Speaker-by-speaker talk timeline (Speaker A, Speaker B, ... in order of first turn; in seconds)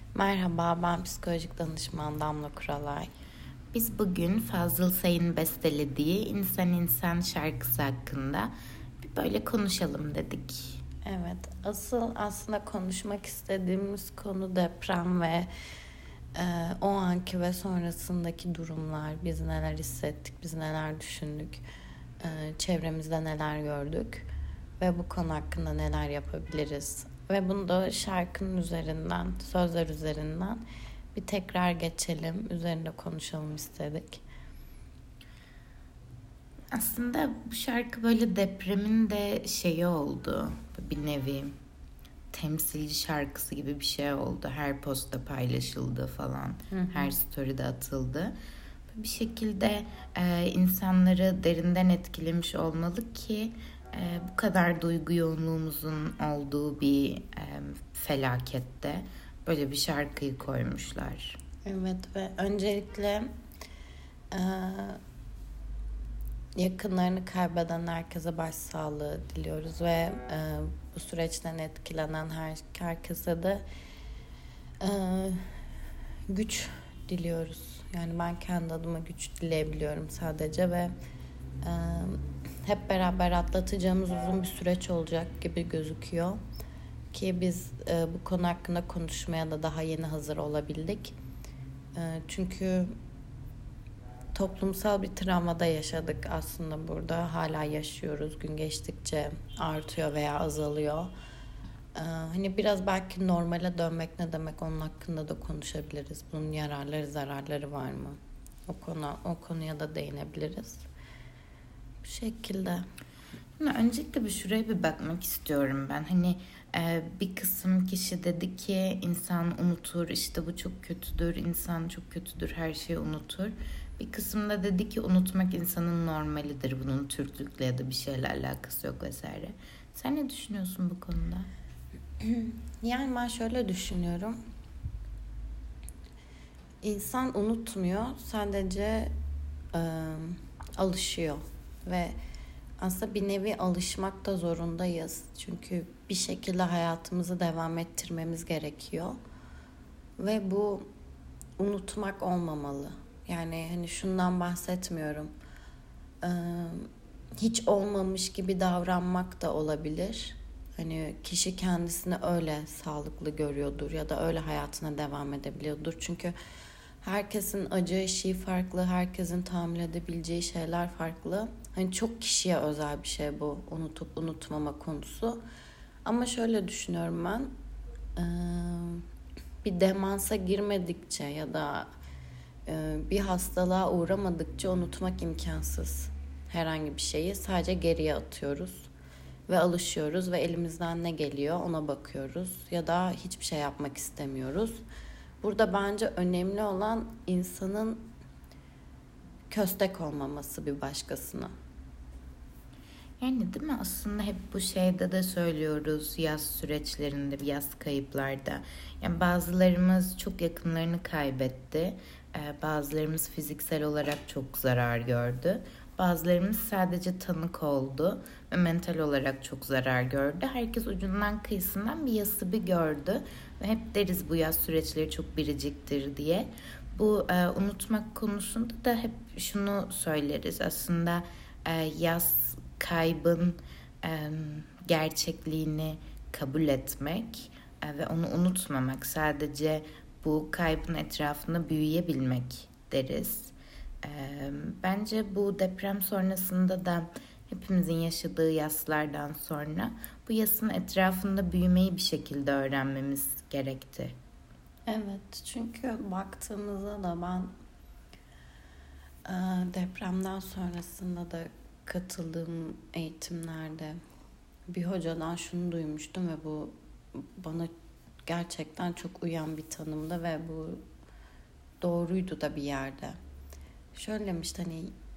Speaker A: 0.1-3.1, 11.0-15.5, 16.3-21.6, 22.2-24.3, 24.8-30.6, 31.1-34.2, 46.7-47.1, 61.6-63.3, 64.3-65.0, 66.5-73.6, 74.8-75.5, 76.3-80.9, 81.6-86.4, 87.1-91.2, 91.9-92.9, 94.3-101.1, 101.9-110.8, 112.0-112.8, 132.2-134.4, 136.8-139.1, 139.7-142.1, 142.8-149.2, 150.2-150.9, 151.6-155.3, 156.2-166.3, 167.0-175.4, 176.0-177.5, 178.2-179.1, 179.6-181.9, 182.7-188.9, 189.5-194.8, 195.4-198.1, 199.5-201.5, 254.9-257.5, 259.2-264.0, 264.7-267.7, 268.2-270.8, 271.8-273.2, 273.9-274.9
Speaker B: 3.7-8.5, 9.0-10.8, 36.7-41.5, 42.3-48.3, 48.9-61.4, 113.6-131.5, 203.2-254.1